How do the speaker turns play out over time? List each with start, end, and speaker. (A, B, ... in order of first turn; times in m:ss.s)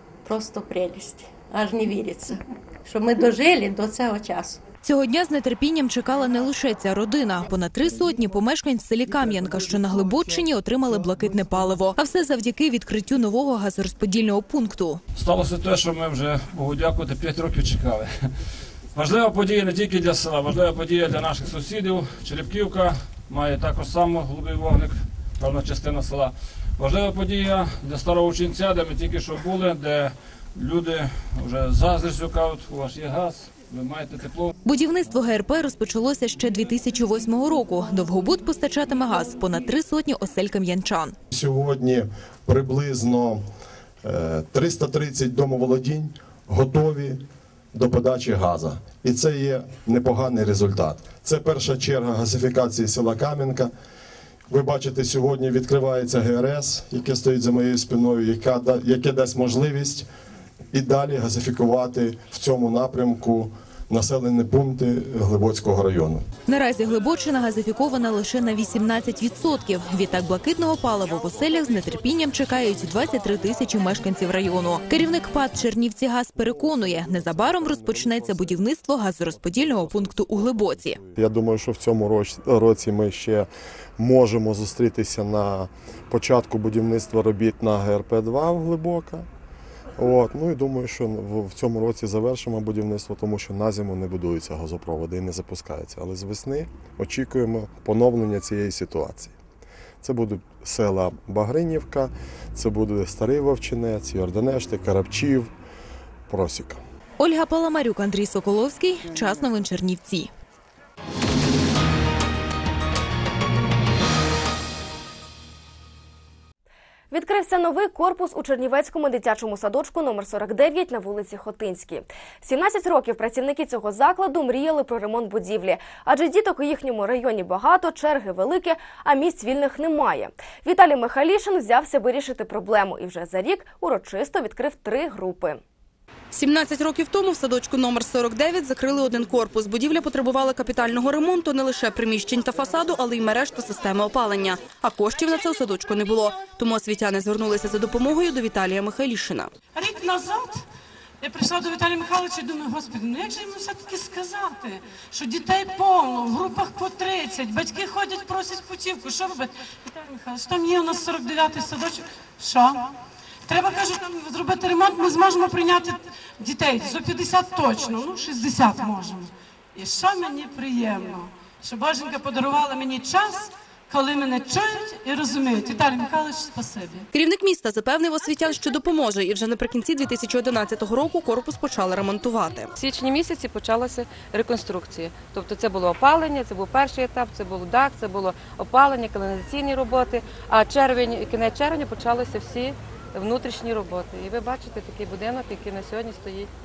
0:00.2-0:04.6 A
0:04.8-0:15.0 B
0:15.2-0:18.1 C
0:19.0-0:34.5 C
0:34.6-0:41.2 B
0:41.3-0:43.4 D
0:44.0-0:47.2 D
0:47.7-0:53.7 D
0:54.5-1:00.1 D
1:00.7-1:06.2 D
1:06.5-1:21.0 B
1:21.2-1:29.3 D
1:30.0-1:39.3 D
1:40.0-1:45.5 D
1:46.3-1:46.8 D
1:47.2-1:50.3 B
1:57.1-2:15.6 E
2:16.3-2:29.5 F
2:29.7-2:30.6 G
2:31.2-2:42.9 G
2:43.4-2:57.1 G
2:57.1-3:02.7 F
3:02.8-3:16.5 H